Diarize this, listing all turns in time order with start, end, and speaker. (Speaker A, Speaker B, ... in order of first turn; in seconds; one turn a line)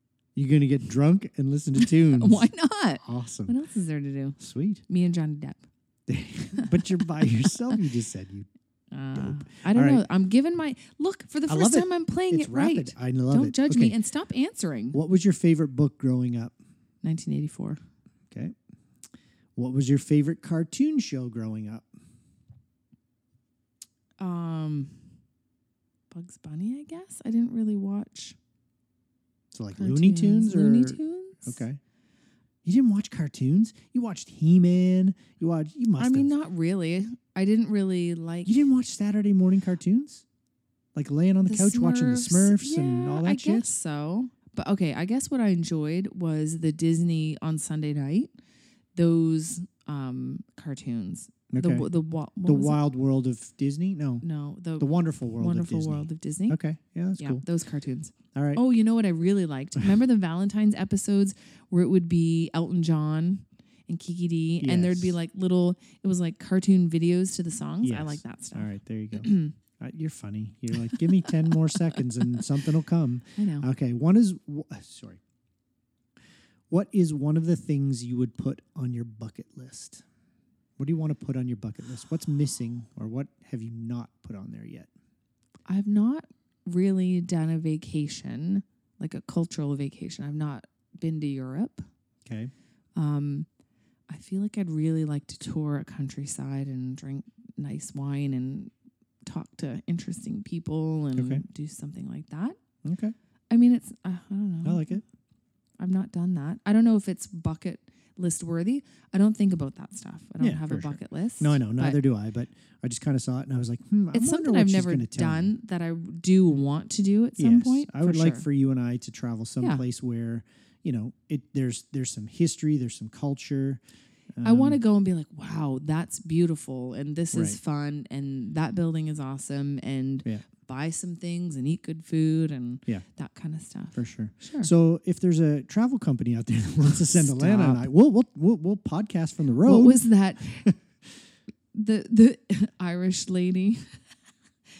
Speaker A: 0.3-2.5
Speaker B: 1.8-5.6
Speaker A: 3.0-3.5
Speaker A: 4.4-4.8
Speaker A: 6.1-8.5
Speaker B: 6.6-7.7
Speaker B: 8.9-15.0
Speaker A: 9.1-10.0
Speaker A: 11.5-13.9
Speaker A: 14.9-16.5
Speaker B: 17.0-17.8
Speaker A: 19.6-21.9
Speaker B: 24.2-25.0
Speaker B: 26.1-28.4
Speaker A: 29.5-31.8
Speaker B: 29.7-31.6
Speaker A: 32.6-36.3
Speaker B: 35.9-38.5
Speaker A: 38.4-40.2
Speaker A: 40.9-43.7
Speaker B: 41.5-48.3
Speaker B: 48.9-52.8
Speaker A: 51.5-51.9
Speaker A: 52.4-54.2
Speaker B: 54.2-56.6
Speaker A: 54.8-57.4
Speaker B: 57.2-69.6
Speaker A: 58.3-58.6
Speaker A: 64.6-65.2
Speaker A: 67.8-75.2
Speaker B: 73.4-73.6
Speaker A: 76.7-80.0
Speaker A: 80.8-84.9
Speaker B: 85.7-91.9
Speaker A: 92.2-92.5
Speaker B: 92.9-93.5
Speaker B: 94.1-98.7
Speaker B: 99.2-102.5
Speaker A: 101.1-101.4
Speaker A: 102.8-103.2
Speaker B: 103.5-105.0
Speaker A: 104.6-105.0
Speaker B: 105.8-112.0
Speaker A: 110.4-115.5
Speaker B: 114.1-118.5
Speaker A: 117.4-123.8
Speaker A: 124.4-124.8
Speaker B: 124.4-134.7
Speaker A: 127.3-127.6
Speaker A: 133.9-140.0
Speaker B: 137.1-137.8
Speaker B: 139.6-140.7
Speaker B: 141.7-143.9